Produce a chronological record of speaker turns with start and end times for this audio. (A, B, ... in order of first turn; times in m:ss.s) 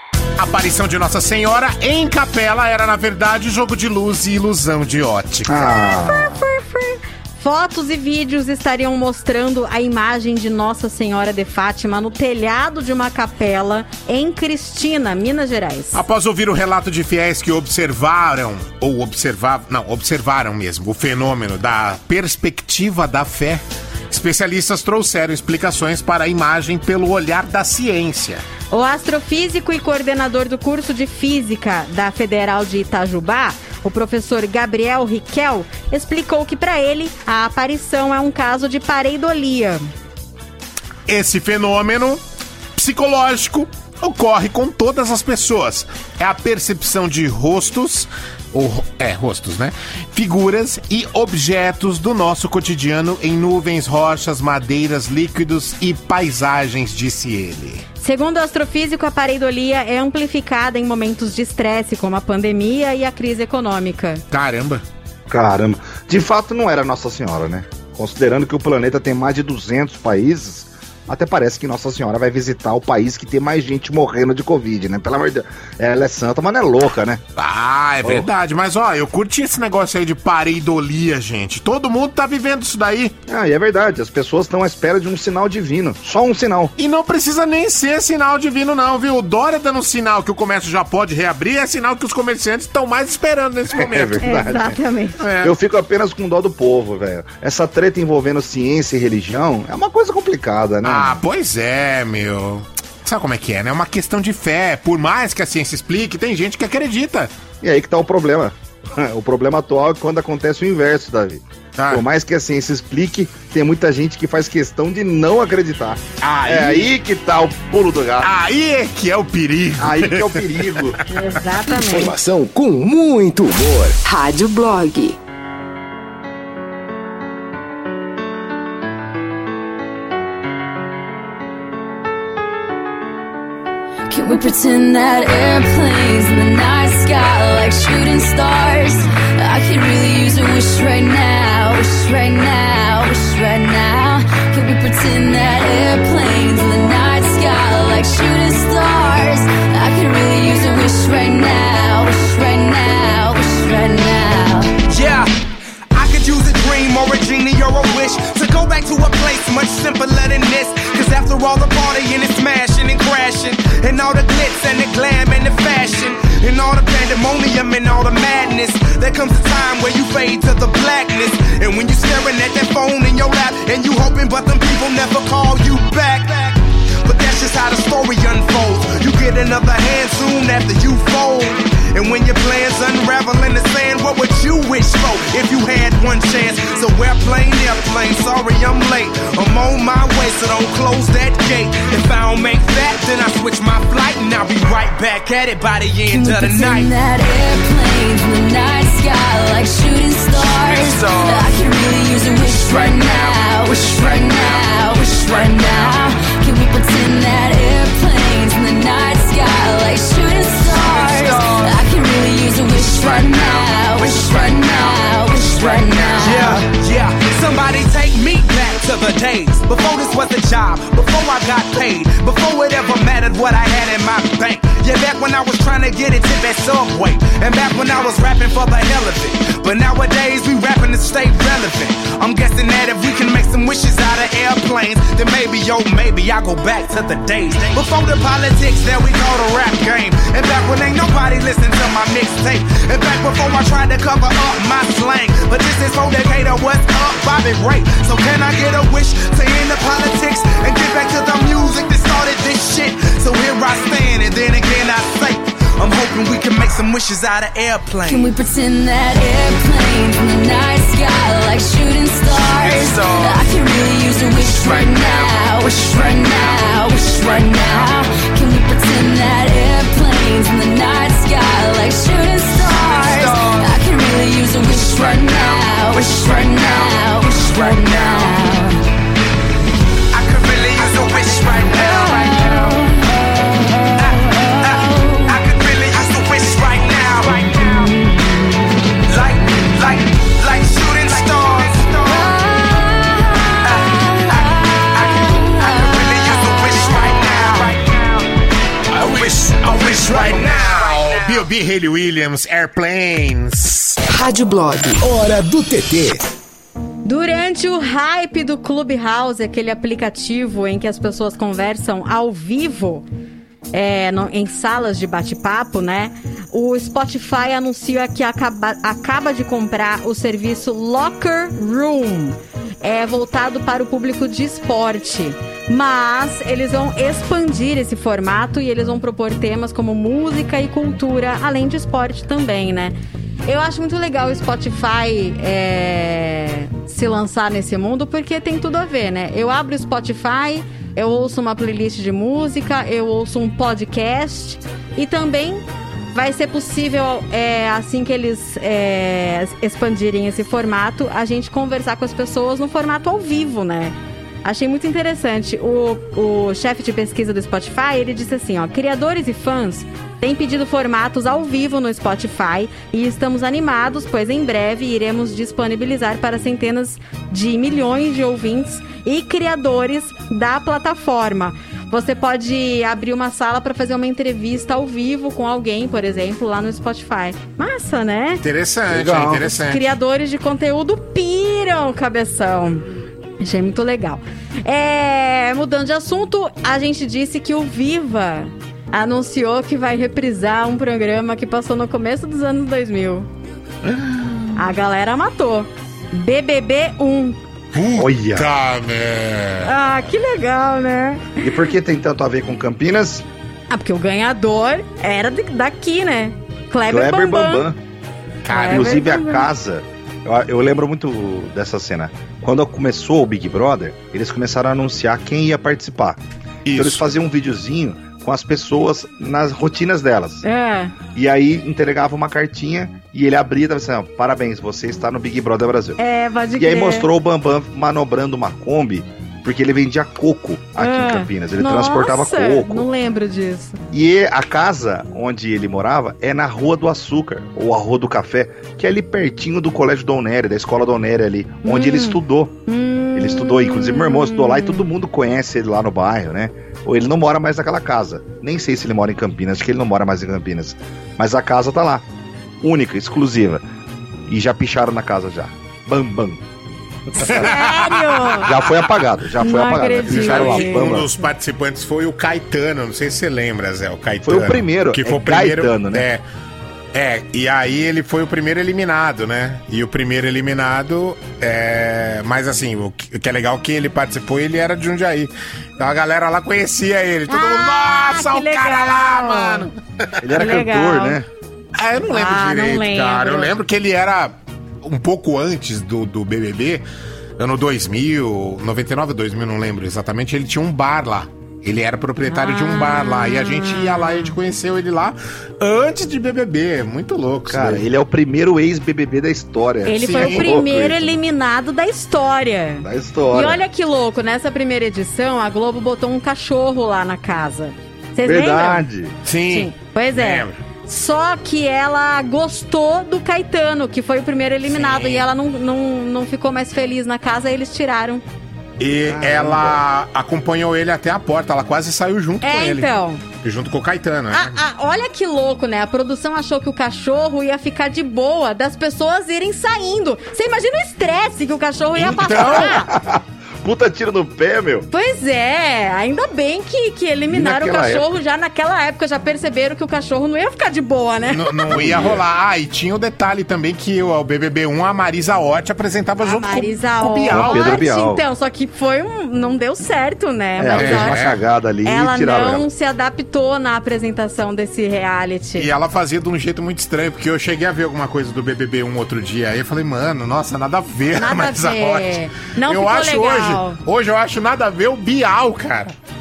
0:00.4-0:05.8 A
0:05.4-0:06.4 B
0:06.0-0:16.0 C
0:15.9-0:28.4 A
0:28.7-0:39.8 C
0:41.1-0:42.2 A
0:42.8-0:57.8 A
0:58.0-1:04.2 C
1:04.3-1:04.8 A
1:05.3-1:17.2 B
1:17.4-1:23.1 A
1:23.3-1:26.7 B
1:26.8-1:34.3 A
1:33.7-1:34.8 B
1:34.2-1:35.2 C
1:35.2-1:35.5 A
1:35.4-1:41.2 B
1:40.8-1:47.3 A
1:47.6-1:58.3 B
1:51.8-1:52.0 A
1:56.2-1:56.9 A
1:58.2-2:00.9 A
1:59.8-2:01.0 B
2:01.1-2:02.1 C
2:01.9-2:04.0 D
2:04.0-2:05.2 E
2:14.1-2:34.8 F
2:34.8-2:35.3 G
2:35.9-3:16.9 G
3:16.1-3:36.6 F
3:20.3-3:21.6 G
3:23.7-3:24.2 G
3:30.6-3:31.9 G
3:32.8-4:18.3 G
4:18.0-4:38.8 F
4:22.3-4:23.4 G
4:32.6-4:33.7 G
4:35.9-4:38.4 G
4:40.1-4:42.8 G
4:41.6-4:45.4 F
4:44.0-4:48.0 G
4:49.0-4:52.5 G
4:52.0-4:57.3 F
4:53.6-4:58.2 G
4:58.9-5:04.0 A
4:59.0-5:01.5 G
5:04.1-5:05.0 E
5:04.8-5:06.2 D
5:07.0-5:13.0 C
5:13.7-6:18.4 C
6:18.4-6:19.8 A
6:18.9-6:19.5 B
6:19.6-6:22.8 C
6:23.4-6:33.3 C
6:33.8-6:34.1 B
6:34.6-6:37.4 C
6:37.7-6:39.7 A
6:38.0-6:38.5 B
6:39.6-6:41.4 C
6:41.4-6:43.2 B
6:43.7-6:47.6 C
6:46.9-6:47.8 B
6:48.5-6:49.0 A
6:48.5-6:49.4 C
6:48.5-7:00.4 B
6:56.6-6:57.0 A
7:00.4-7:00.9 C
7:01.1-7:06.0 B
7:06.0-7:07.1 C
7:06.6-7:12.8 B
7:10.8-7:13.8 C
7:13.9-7:22.5 B
7:21.6-7:24.8 C
7:23.1-7:32.0 B
7:32.6-7:33.6 B
7:34.3-7:36.4 B
7:37.1-7:37.5 B
7:37.2-7:38.5 C
7:37.3-7:38.6 A
7:38.4-7:41.1 B
7:39.4-7:41.2 C
7:40.0-7:46.2 A
7:44.2-7:46.1 B
7:46.9-7:59.8 A
7:57.3-7:59.7 C
8:00.2-8:01.3 B
8:00.3-8:01.2 C
8:01.8-8:06.8 A
8:02.1-8:03.5 C
8:07.4-8:17.8 A
8:12.3-8:14.3 C
8:17.5-8:21.0 B
8:19.8-8:28.8 C
8:20.0-8:20.6 A
8:22.8-8:23.6 B
8:28.2-8:29.1 B
8:29.2-8:30.6 A
8:29.5-8:38.2 C
8:34.6-8:35.2 A
8:38.8-8:42.9 A
8:39.0-8:39.8 B
8:42.4-8:43.2 C
8:43.4-8:44.6 A
8:44.3-8:52.9 C
8:52.0-8:52.8 A
8:52.3-8:54.9 B
8:54.9-9:01.6 C
8:57.3-8:58.1 B
9:01.3-9:07.6 A
9:01.7-9:02.2 B
9:06.2-9:11.2 C
9:07.3-9:08.2 B
9:10.6-9:12.6 B
9:10.8-9:11.4 A
9:11.8-9:15.7 C
9:15.6-9:25.9 A
9:21.2-9:23.8 C